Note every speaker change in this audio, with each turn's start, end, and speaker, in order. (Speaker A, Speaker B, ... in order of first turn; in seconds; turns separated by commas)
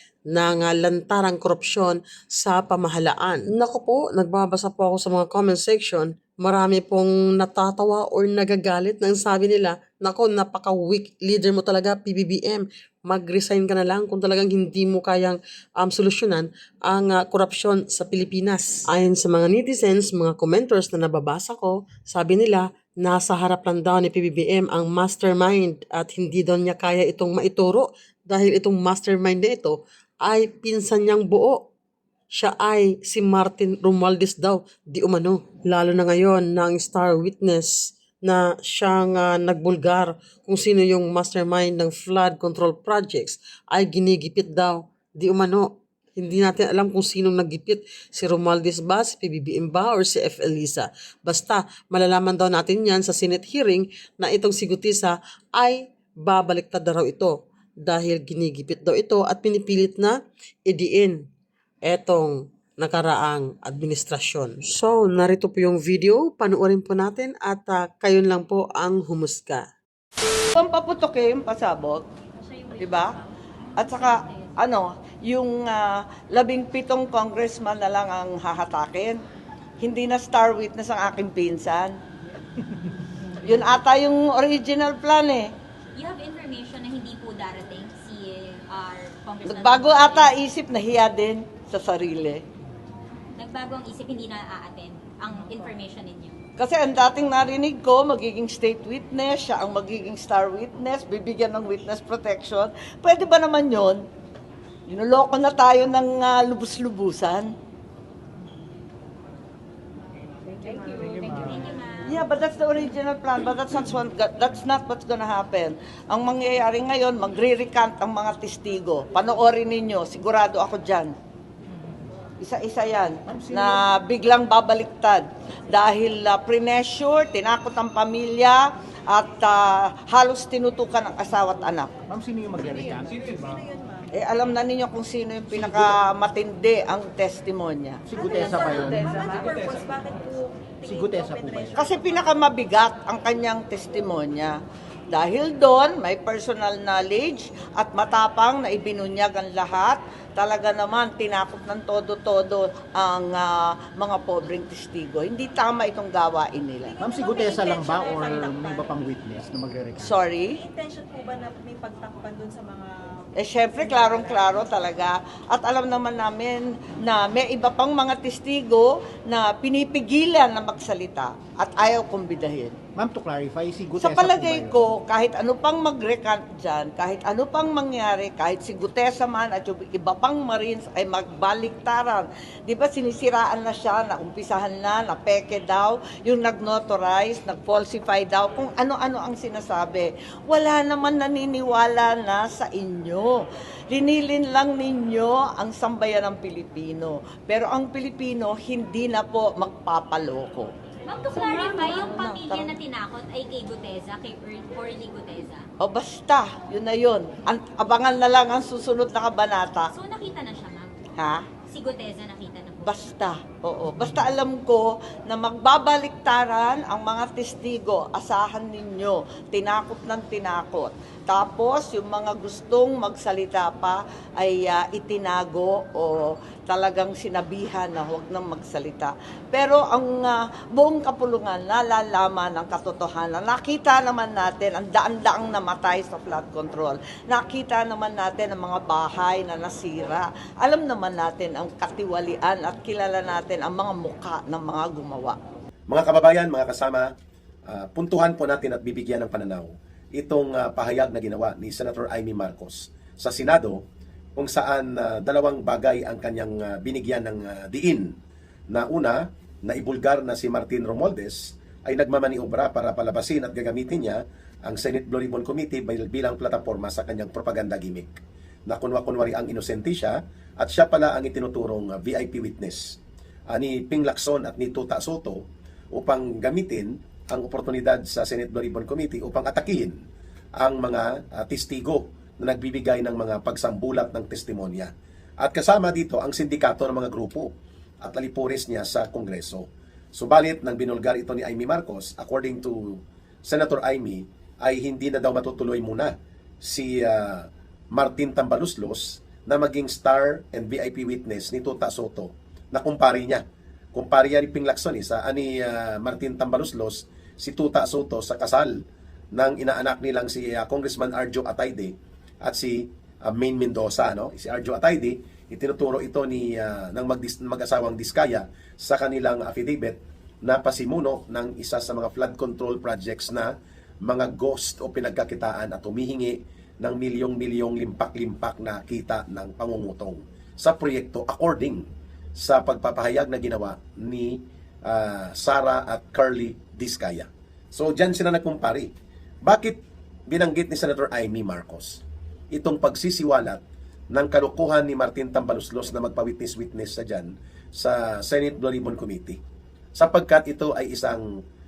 Speaker A: 0.3-31.7, Speaker A: 32.3-61.3, Speaker A: 61.8-69.7, Speaker B: 70.5-72.0, Speaker B: 72.7-73.2, Speaker B: 73.8-79.2, Speaker B: 79.8-82.0, Speaker B: 83.4-85.5, Speaker C: 85.9-90.3, Speaker B: 89.5-92.4, Speaker C: 93.3-96.4, Speaker B: 96.6-104.0, Speaker B: 104.9-107.5, Speaker D: 110.6-111.3, Speaker C: 111.2-112.2, Speaker B: 112.1-121.1, Speaker B: 122.4-131.9, Speaker E: 123.3-123.8, Speaker E: 132.1-133.6, Speaker D: 132.7-134.1, Speaker B: 134.1-138.0, Speaker E: 135.5-135.9, Speaker E: 138.1-139.5, Speaker D: 138.1-142.4, Speaker E: 140.8-141.9, Speaker B: 141.8-144.6, Speaker B: 145.1-157.0, Speaker D: 156.9-159.0, Speaker E: 157.0-160.1, Speaker B: 160.0-160.6, Speaker D: 160.6-164.7, Speaker B: 163.4-172.8, Speaker E: 172.9-174.8, Speaker B: 174.0-200.7, Speaker C: 201.1-205.6, Speaker B: 201.3-202.7, Speaker B: 205.8-209.9, Speaker C: 209.9-210.9, Speaker B: 211.2-211.5, Speaker C: 211.7-213.1, Speaker B: 212.8-245.4, Speaker F: 245.9-247.1, Speaker F: 247.7-253.8, Speaker F: 254.4-258.1, Speaker F: 258.7-279.9, Speaker F: 280.6-303.4, Speaker F: 303.9-308.8, Speaker F: 309.3-323.5, Speaker F: 324.0-338.9, Speaker F: 339.4-343.6, Speaker F: 344.1-349.4, Speaker F: 349.9-351.2